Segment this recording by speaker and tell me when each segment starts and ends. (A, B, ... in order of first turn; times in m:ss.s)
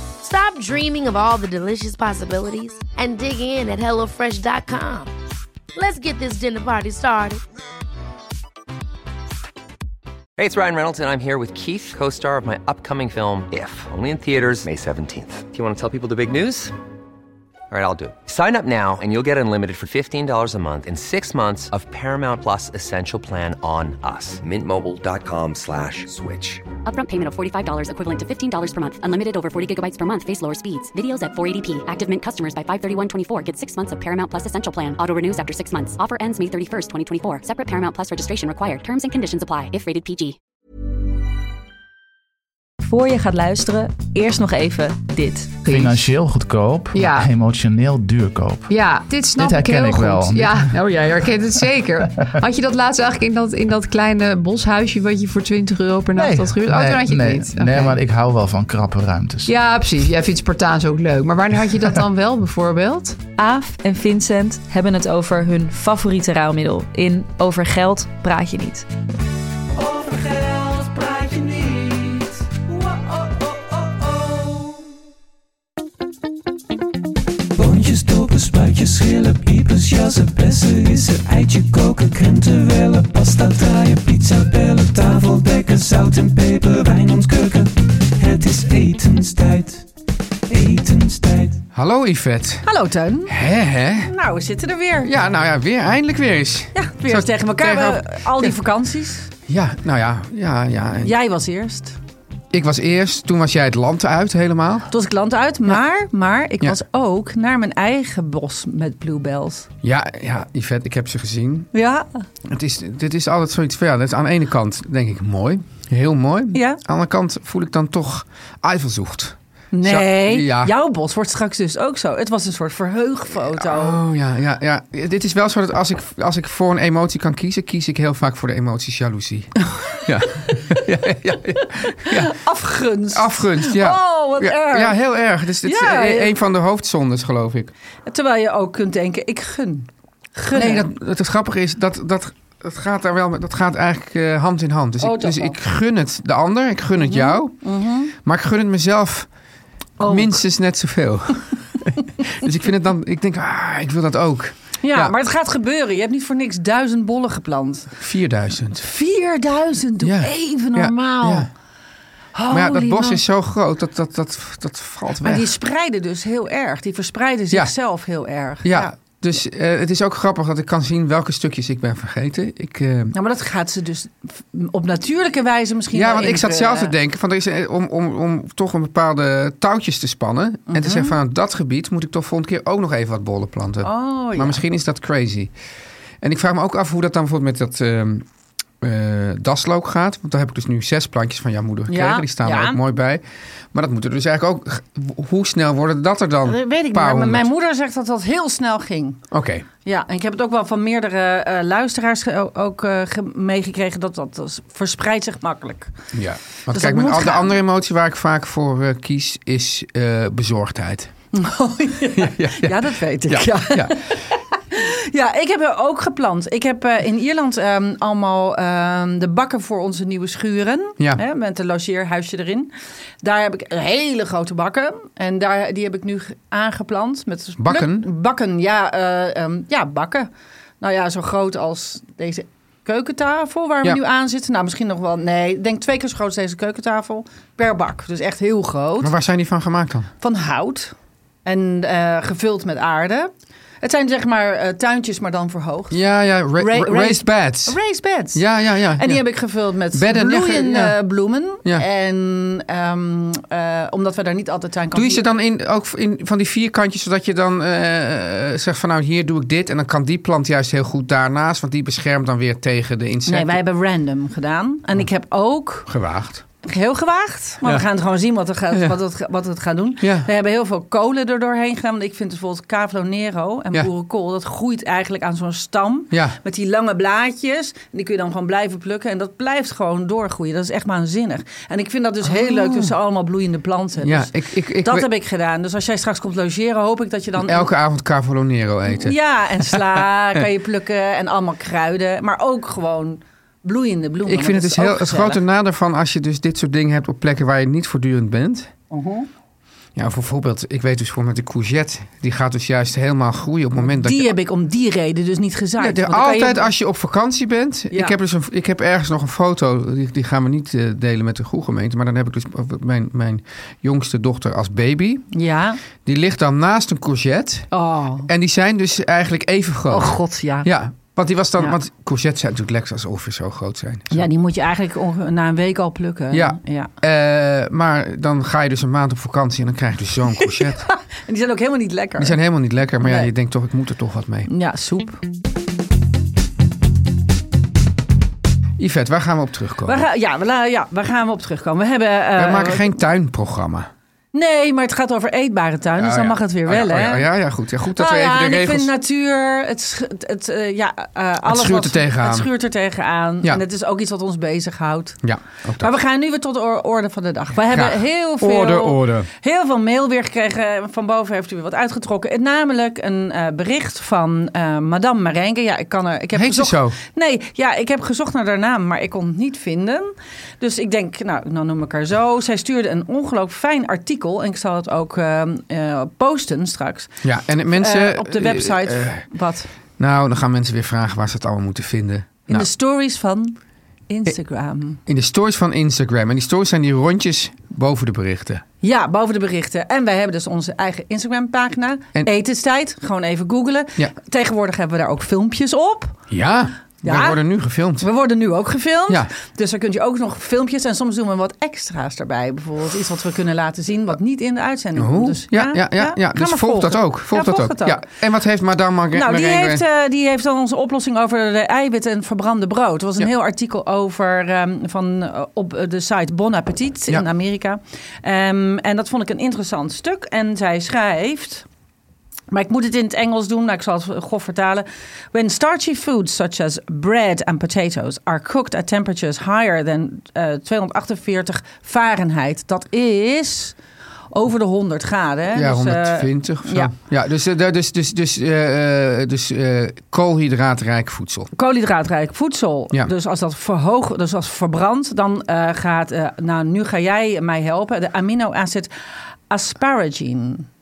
0:00.2-0:05.1 A
0:05.8-0:07.4 A
0:10.4-0:16.7 B
0:17.7-0:26.7 B
0:26.8-0:40.4 C
0:42.8-0:45.6 D
0:45.7-0:48.7 E
0:45.7-0:46.0 F
0:46.9-0:47.3 F
0:48.7-0:58.0 F
0:49.4-0:51.3 E
0:56.1-0:59.5 E
0:59.5-1:03.2 F
1:03.4-1:08.8 D
1:09.8-1:14.8 G
1:17.5-1:29.9 G
1:30.5-1:31.6 G
1:31.7-1:32.7 H
1:32.6-1:33.3 I
1:33.2-1:34.1 H
1:34.0-1:35.1 I
1:35.0-1:38.6 H
1:36.7-1:39.3 I
1:39.5-1:41.2 H
1:41.0-1:42.0 I
1:42.5-1:44.9 H
1:44.9-1:49.7 I
1:49.8-1:51.7 H
1:51.7-1:52.2 I
1:52.4-2:00.8 H
1:56.5-1:56.8 I
1:59.7-2:04.0 I
2:03.6-2:12.3 H
2:12.1-2:15.0 I
2:13.1-2:17.7 H
2:15.6-2:16.3 I
2:18.1-2:20.9 I
2:20.5-2:27.6 H
2:25.0-2:25.6 I
2:27.0-2:28.1 I
2:28.1-2:29.3 H
2:30.0-2:30.4 I
2:30.0-2:35.2 H
2:34.8-2:37.9 I
2:38.0-2:38.8 H
2:38.8-2:41.5 I
2:40.0-2:41.5 H
2:42.3-2:43.2 I
2:42.5-2:45.5 H
2:45.2-2:48.9 I
2:48.6-2:53.1 H
2:53.1-2:56.9 I
2:55.9-3:05.5 H
3:00.7-3:01.2 I
3:03.8-3:04.6 I
3:06.2-3:08.2 H
3:08.8-3:17.5 H
3:11.9-3:12.8 I
3:16.4-3:19.2 I
3:19.3-3:19.7 H
3:19.8-3:25.9 I
3:26.1-3:31.1 H
3:26.7-3:27.5 I
3:31.3-3:42.7 I
3:32.1-3:34.0 H
3:43.2-3:50.3 I
3:47.6-3:48.1 H
3:50.8-3:59.1 I
3:59.0-4:00.1 H
4:00.2-4:00.9 I
4:01.4-4:03.3 I
4:03.8-4:06.0 I
4:05.9-4:07.8 H
4:06.6-4:08.4 I
4:08.3-4:09.2 H
4:09.0-4:15.2 I
4:09.9-4:10.9 H
4:14.9-4:23.6 H
4:23.3-4:25.9 I
4:25.9-4:26.4 H
4:26.6-4:44.3 I
4:30.0-4:30.3 H
4:36.1-4:36.4 H
4:42.2-4:42.9 H
4:44.0-4:45.1 H
4:44.8-4:47.7 I
4:47.4-4:49.8 H
4:48.9-4:55.4 I
4:54.2-4:58.7 H
4:58.9-4:59.3 I
4:59.9-5:04.3 H
5:03.8-5:06.7 I
5:05.8-5:15.3 H
5:07.9-5:08.2 I
5:15.3-5:15.8 I
5:16.0-5:17.7 H
5:17.7-5:18.3 I
5:18.2-5:24.2 H
5:19.9-5:20.7 I
5:24.1-5:26.9 I
5:26.3-5:30.8 H
5:30.4-5:32.4 I
5:32.2-5:34.5 H
5:33.0-5:33.3 I
5:34.5-5:35.2 I
5:38.8-5:40.1 H
5:39.8-5:42.9 I
5:42.4-5:43.9 H
5:44.3-5:47.3 I
5:46.0-5:48.9 H
5:47.9-5:55.2 I
5:51.4-5:52.5 H
5:55.2-5:55.9 H
5:55.8-6:17.1 I
5:57.6-5:59.3 H
6:06.3-6:07.0 H
6:17.2-6:19.2 H
6:17.7-6:19.7 I
6:20.0-6:22.7 H
6:22.5-6:23.6 I
6:24.1-6:25.0 I
6:25.1-6:28.6 H
6:28.8-6:36.2 I
6:36.3-6:38.1 H
6:37.0-6:37.4 I
6:38.0-6:48.0 I
6:45.0-6:49.8 H
6:49.1-7:01.6 I
7:02.5-7:13.8 I
7:14.3-7:16.9 I
7:15.5-7:21.5 H
7:21.6-7:28.9 I
7:29.5-7:30.6 I